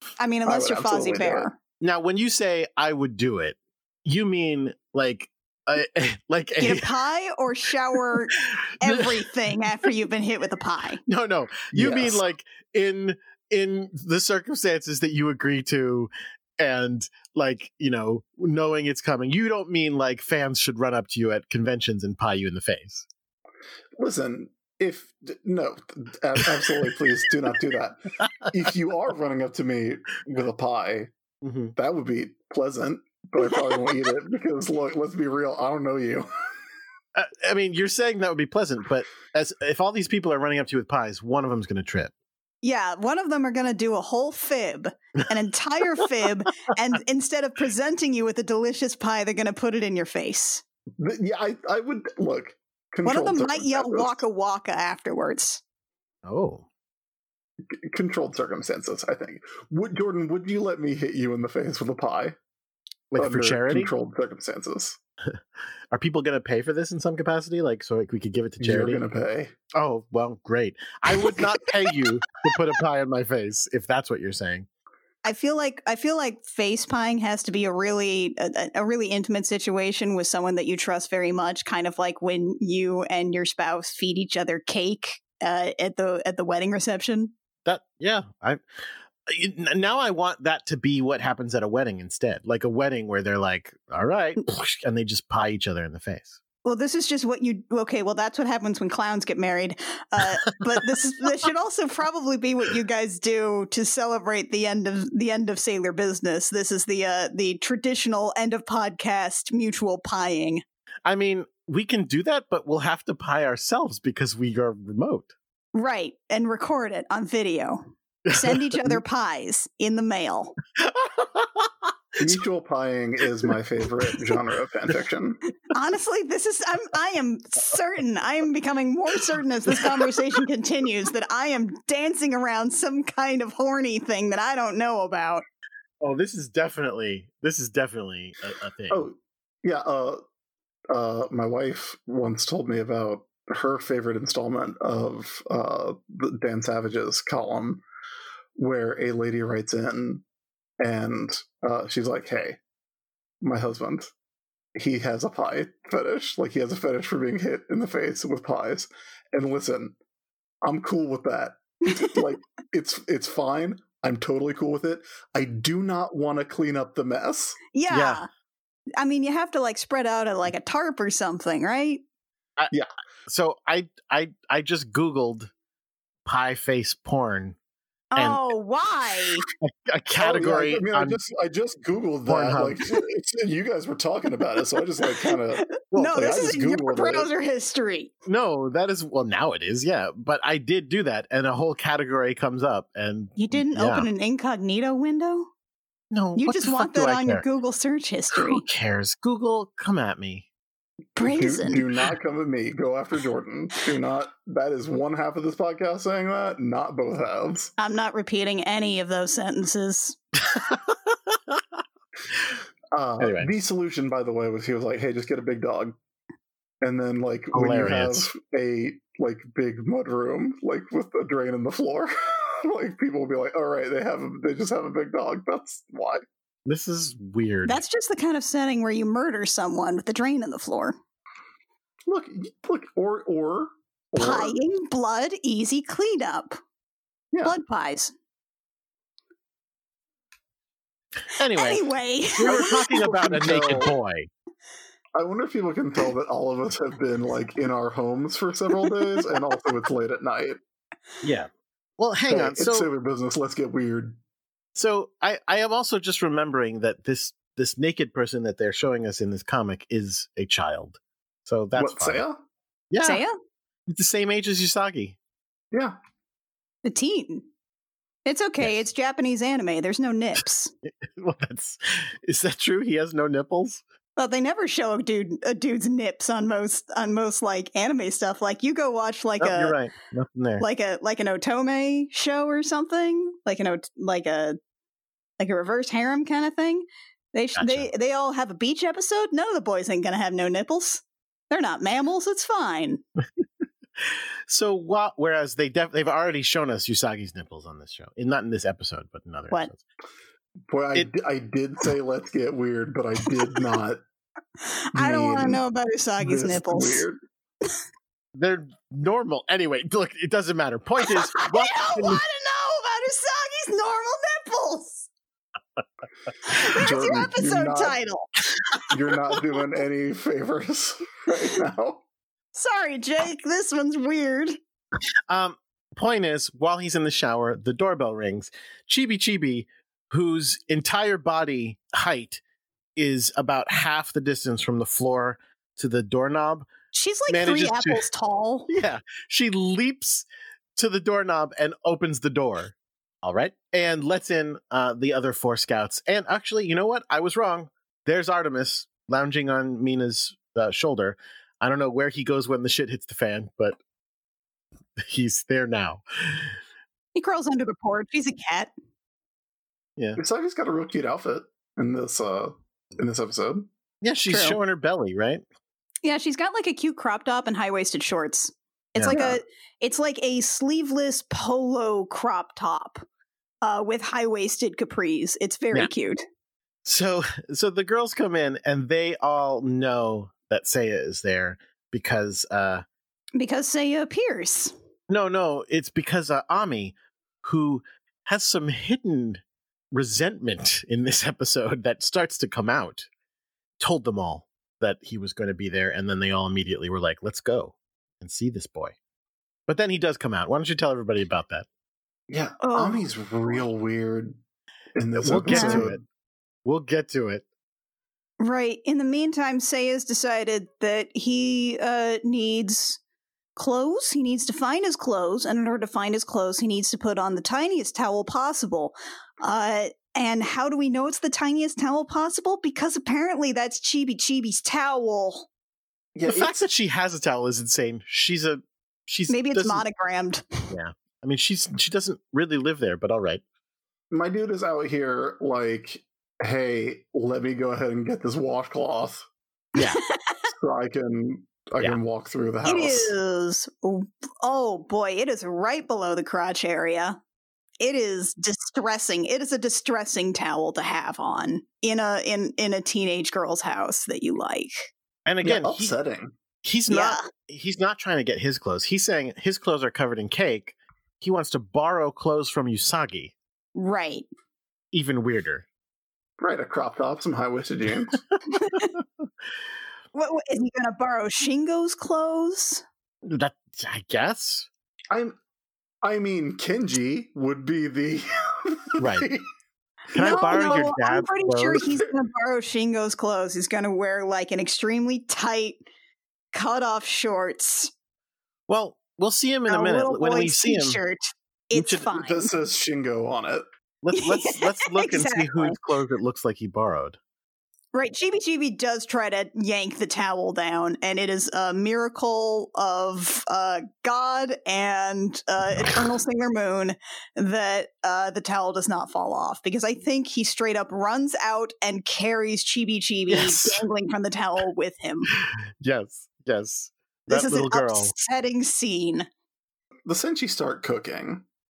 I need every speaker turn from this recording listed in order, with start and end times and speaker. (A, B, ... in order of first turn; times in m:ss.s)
0:00.2-0:01.5 A
0:00.4-0:01.5 B
0:01.8-0:06.9 C
0:06.6-0:11.0 A
0:08.4-0:09.1 C
0:11.0-0:23.0 C
0:11.7-0:12.2 B
0:24.0-0:31.1 B
0:31.4-0:31.7 C
0:31.8-0:36.3 B
0:37.1-0:42.1 C
0:42.6-0:50.6 A
0:51.0-0:54.2 B
0:53.0-0:55.6 A
0:56.2-0:56.6 C
0:57.7-1:02.4 B
1:03.1-1:03.9 C
1:03.2-1:05.0 B
1:05.9-1:09.0 C
1:08.6-1:09.5 B
1:09.7-1:14.7 C
1:15.2-1:27.3 A
1:27.6-1:28.6 C
1:29.3-1:36.4 C
1:36.6-1:50.6 A
1:51.0-1:55.3 C
1:55.7-2:00.6 A
1:58.3-1:58.6 C
2:00.8-2:01.9 C
2:02.2-2:05.4 B
2:05.7-2:15.4 A
2:16.0-2:19.0 C
2:18.9-2:20.2 B
2:20.9-2:27.8 B
2:28.6-2:30.2 B
2:30.8-2:32.6 B
2:33.4-2:34.1 B
2:34.8-2:40.0 B
2:40.6-2:47.6 B
2:41.9-2:42.2 A
2:47.7-2:48.3 A
2:47.9-2:48.2 C
2:49.0-2:52.0 A
2:53.3-2:55.5 C
2:56.2-2:57.6 C
2:58.1-2:59.4 A
2:58.2-2:58.5 C
2:59.6-3:01.2 C
3:00.2-3:07.3 B
3:02.2-3:02.8 C
3:05.0-3:08.1 A
3:08.2-3:14.1 C
3:13.4-3:15.5 A
3:16.1-3:17.4 C
3:16.4-3:18.6 A
3:18.3-3:20.5 C
3:21.2-3:21.9 A
3:21.2-3:27.7 B
3:27.8-3:30.2 A
3:30.5-3:31.6 C
3:32.9-3:35.9 B
3:33.2-3:33.5 C
3:36.8-3:46.2 B
3:37.5-3:38.3 C
3:46.6-3:47.8 C
3:47.6-3:51.0 A
3:52.0-3:54.6 B
3:54.2-3:56.6 A
3:57.4-3:58.1 A
4:01.3-4:04.3 C
4:01.5-4:03.0 A
4:02.9-4:03.9 B
4:05.1-4:10.6 B
4:11.2-4:12.9 C
4:12.3-4:14.2 B
4:14.7-4:22.2 C
4:21.7-4:22.4 B
4:22.9-4:23.2 C
4:23.0-4:23.3 A
4:23.9-4:25.2 C
4:26.8-4:27.4 A
4:28.2-4:30.7 A
4:31.0-4:33.8 C
4:34.2-4:39.8 A
4:39.4-4:40.6 C
4:40.6-4:44.6 A
4:45.4-4:53.0 A
4:47.6-4:47.9 C
4:54.5-4:59.8 C
5:00.7-5:04.0 B
5:04.6-5:07.0 A
5:04.9-5:05.6 B
5:06.2-5:07.2 B
5:08.3-5:12.2 C
5:11.0-5:15.1 A
5:16.5-5:18.3 A
5:16.6-5:18.0 B
5:18.9-5:22.0 B
5:22.5-5:24.6 A
5:25.3-5:32.4 C
5:33.0-5:36.7 C
5:36.9-5:38.7 A
5:37.3-5:38.0 C
5:38.7-5:53.8 C
5:55.0-5:56.6 C
5:57.1-5:58.7 A
6:00.2-6:03.7 B
6:04.0-6:05.4 C
6:04.3-6:04.6 A
6:06.0-6:13.0 A
6:09.0-6:09.2 C
6:13.6-6:16.2 A
6:16.8-6:22.8 C
6:23.4-6:24.7 A
6:25.1-6:33.1 C
6:33.8-6:38.9 C
6:39.7-6:41.6 C
6:42.3-6:44.4 B
6:42.6-6:43.0 A
6:45.0-6:46.0 B
6:45.1-6:46.0 C
6:45.5-6:45.8 A
6:46.6-6:47.4 C
6:48.4-6:53.0 A
6:53.6-7:05.5 A
7:06.1-7:06.6 B
7:06.3-7:09.8 C
7:09.3-7:10.7 A
7:10.7-7:13.4 C
7:14.1-7:19.2 B
7:19.8-7:20.0 C
7:19.8-7:20.4 A
7:20.5-7:23.1 B
7:22.6-7:27.2 A
7:27.8-7:34.7 A
7:35.2-7:35.9 C
7:35.4-7:36.3 B
7:36.6-7:43.3 C
7:36.9-7:37.2 A
7:43.7-7:44.2 A
7:44.9-7:45.6 C
7:46.4-7:48.2 B
7:48.6-7:48.9 A
7:50.1-7:52.8 A
7:53.2-7:54.7 C
7:55.1-7:55.4 B
7:56.0-7:59.4 B
7:59.0-7:59.3 C
8:00.1-8:01.8 C
8:00.1-8:05.8 A
8:06.5-8:07.9 A
8:08.7-8:11.0 C
8:09.7-8:12.5 A
8:11.7-8:12.1 C
8:12.1-8:13.6 B
8:14.0-8:17.2 C
8:14.1-8:15.8 A
8:17.9-8:35.3 A
8:33.3-8:33.8 C
8:35.3-8:38.1 C
8:37.3-8:39.2 A
8:40.0-8:41.4 B